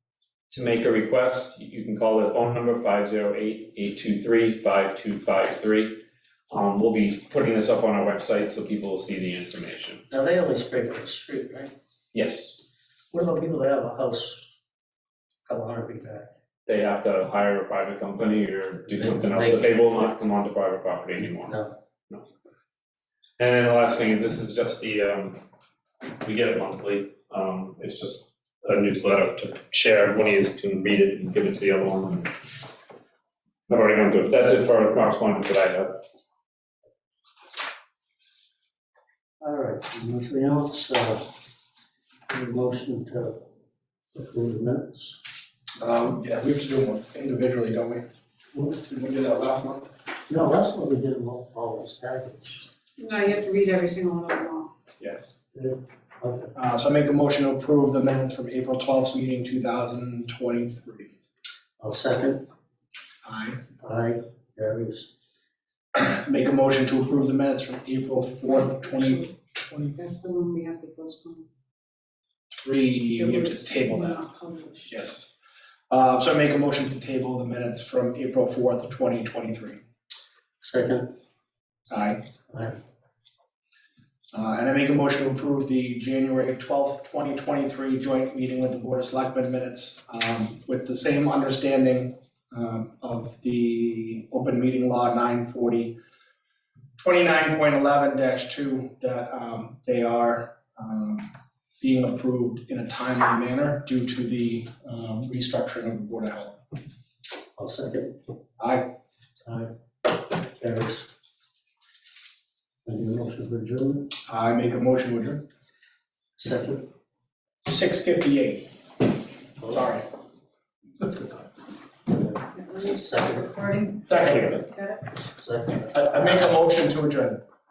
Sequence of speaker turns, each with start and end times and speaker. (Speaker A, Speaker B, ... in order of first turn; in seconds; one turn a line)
Speaker A: 0.5-10.0
Speaker B: 10.1-11.7
Speaker A: 12.1-12.6
Speaker B: 13.1-14.4
Speaker B: 15.4-16.3
Speaker A: 16.6-22.2
Speaker B: 18.9-19.9
Speaker B: 21.4-21.7
Speaker A: 23.4-25.4
Speaker A: 26.2-32.3
Speaker A: 33.7-36.0
Speaker B: 39.4-41.3
Speaker B: 42.3-43.4
Speaker B: 44.1-45.2
Speaker C: 45.8-49.9
Speaker B: 50.3-52.6
Speaker D: 53.0-54.7
Speaker B: 55.5-56.5
Speaker C: 56.5-61.1
Speaker B: 61.8-62.5
Speaker C: 63.2-63.6
Speaker B: 63.8-65.1
Speaker C: 65.9-69.8
Speaker D: 68.5-71.4
Speaker C: 72.6-74.2
Speaker D: 73.2-74.9
Speaker C: 74.9-75.3
Speaker C: 75.9-79.8
Speaker B: 80.6-81.1
Speaker C: 81.9-82.2
Speaker B: 82.5-82.8
Speaker C: 84.3-96.0
Speaker C: 97.0-106.6
Speaker B: 107.5-108.1
Speaker C: 108.6-108.9
Speaker B: 109.4-111.1
Speaker B: 112.8-114.1
Speaker C: 114.3-115.4
Speaker B: 116.4-116.9
Speaker C: 117.6-118.7
Speaker C: 119.6-120.0
Speaker C: 121.0-121.5
Speaker D: 122.5-125.0
Speaker B: 122.8-123.5
Speaker C: 124.0-124.6
Speaker B: 125.3-126.6
Speaker C: 125.9-127.4